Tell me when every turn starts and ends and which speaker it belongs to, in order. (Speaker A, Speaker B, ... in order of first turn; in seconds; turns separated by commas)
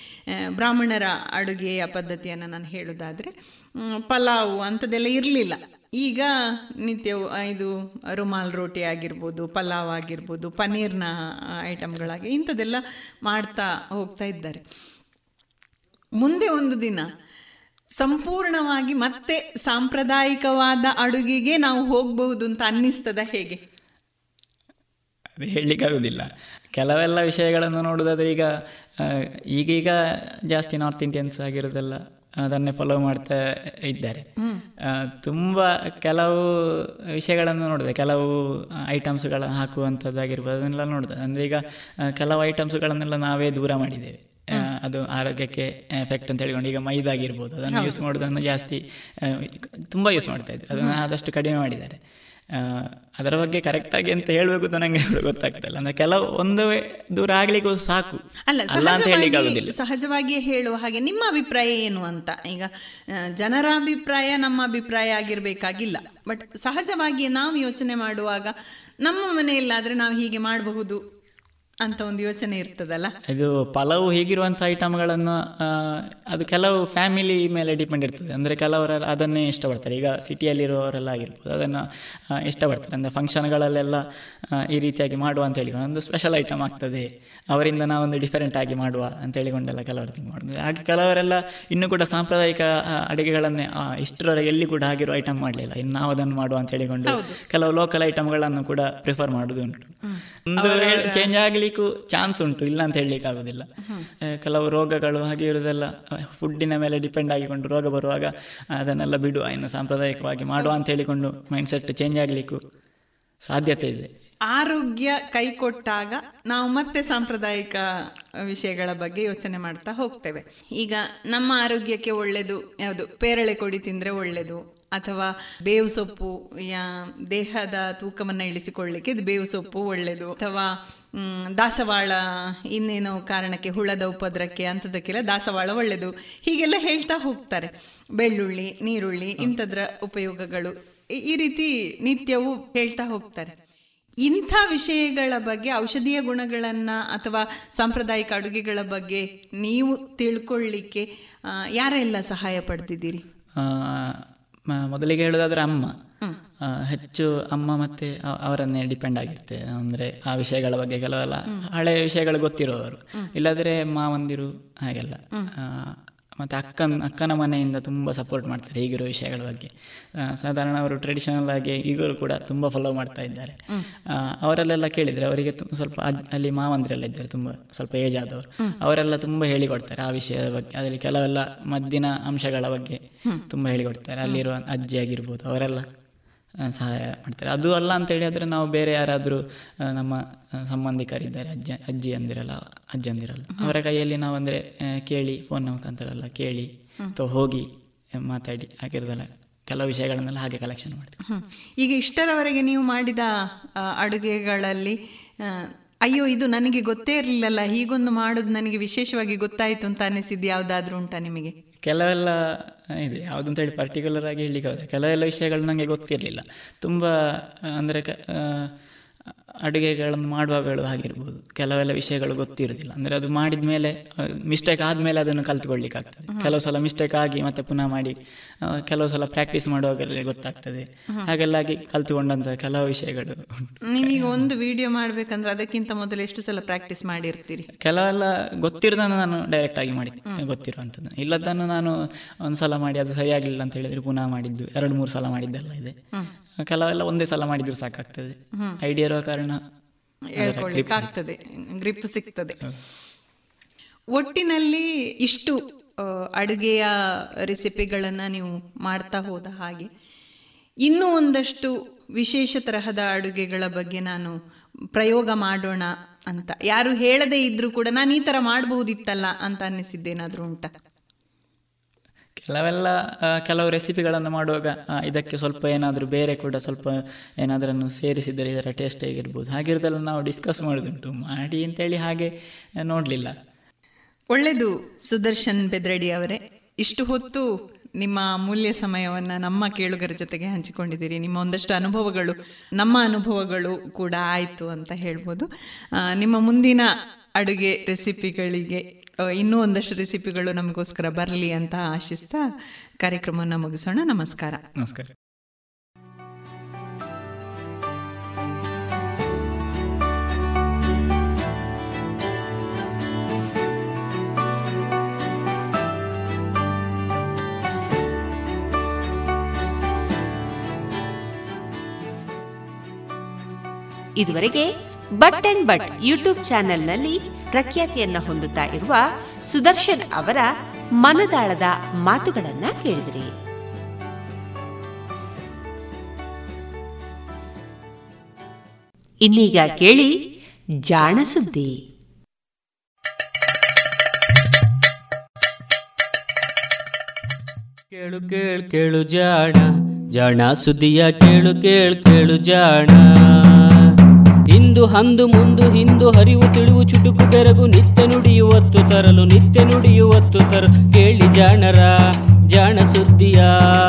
Speaker A: 0.6-6.3, Speaker A: 6.8-11.1, Speaker A: 11.7-14.6, Speaker A: 16.2-17.1, Speaker A: 17.9-23.6, Speaker B: 25.4-28.5, Speaker B: 29.0-29.9, Speaker B: 30.5-34.2, Speaker B: 34.9-52.0, Speaker A: 47.7-48.0, Speaker A: 50.7-51.0, Speaker B: 52.5-58.2, Speaker A: 58.5-62.7, Speaker B: 58.7-59.7, Speaker A: 63.4-68.5, Speaker A: 69.0-71.0, Speaker A: 71.8-73.1, Speaker B: 73.3-81.8, Speaker B: 82.4-84.0, Speaker B: 84.7-99.9, Speaker A: 97.1-97.4, Speaker A: 100.1-101.3, Speaker B: 100.5-103.6, Speaker B: 104.4-112.6, Speaker B: 113.5-114.1, Speaker A: 114.5-117.8, Speaker A: 118.5-132.2, Speaker A: 132.7-143.5, Speaker A: 144.2-151.1, Speaker A: 151.7-153.2, Speaker B: 153.6-154.2, Speaker B: 154.7-155.9, Speaker B: 156.7-173.6, Speaker B: 174.4-183.0, Speaker B: 183.5-185.8, Speaker B: 186.6-197.7, Speaker B: 198.2-201.1, Speaker A: 201.2-203.3, Speaker A: 204.0-204.9, Speaker A: 205.5-211.5, Speaker B: 211.8-212.4, Speaker B: 213.0-217.1, Speaker B: 217.7-218.7, Speaker B: 219.7-228.2, Speaker B: 228.7-234.5, Speaker A: 233.9-237.7, Speaker B: 237.8-245.9, Speaker B: 246.7-249.6, Speaker A: 250.3-252.6, Speaker B: 250.4-251.1, Speaker A: 254.2-256.9, Speaker A: 257.4-259.9, Speaker A: 260.8-264.4, Speaker A: 264.9-270.7, Speaker B: 272.4-283.3, Speaker A: 284.3-287.5, Speaker A: 288.0-295.5, Speaker A: 296.0-296.9, Speaker A: 297.4-298.8, Speaker A: 299.3-302.4, Speaker A: 303.0-304.6, Speaker B: 304.8-305.1, Speaker C: 324.2-324.7, Speaker C: 325.2-330.5, Speaker C: 331.0-333.3, Speaker C: 339.2-340.1, Speaker C: 340.8-341.7, Speaker D: 347.9-353.0, Speaker D: 354.5-361.9, Speaker D: 362.5-363.5